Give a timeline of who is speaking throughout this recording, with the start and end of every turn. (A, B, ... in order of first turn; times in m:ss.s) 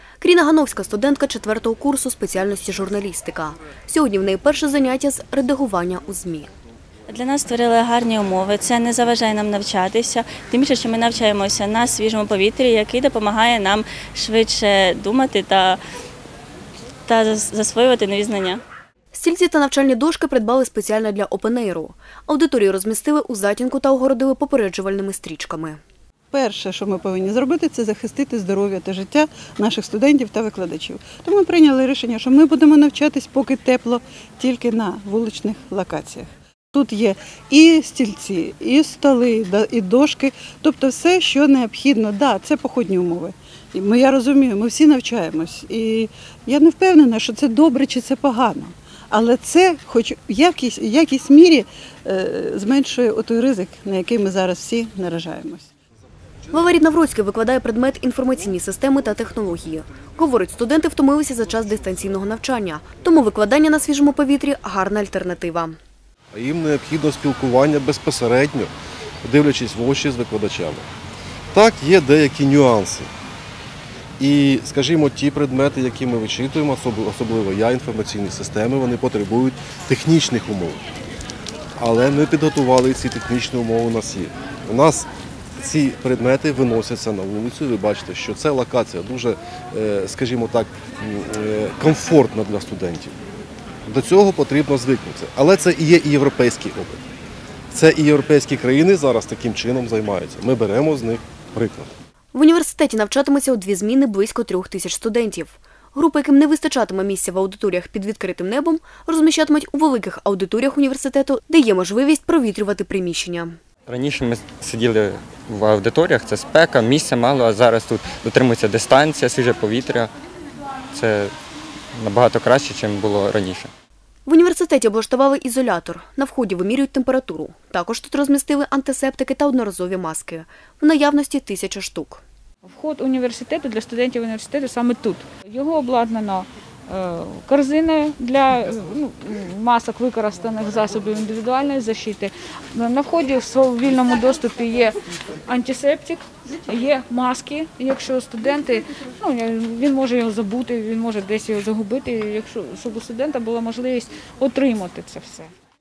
0:00.2-0:06.5 A
0:07.1-0:15.8 B
0:17.1-0:18.6 B
0:19.1-0:25.8 A
0:26.3-0:55.7 C
0:56.5-1:05.8 A
1:06.3-1:08.7 D
1:09.2-1:10.9 D
1:11.5-1:13.1 D
1:14.2-1:20.8 D
1:21.8-1:25.1 D
1:25.6-1:33.2 D
1:33.9-1:37.0 D
1:37.7-1:41.9 D
1:42.3-1:53.6 A
1:53.9-2:00.1 E
2:00.9-2:01.3 E
2:02.0-2:03.7 E
2:04.2-2:12.2 A
2:12.7-2:35.5 F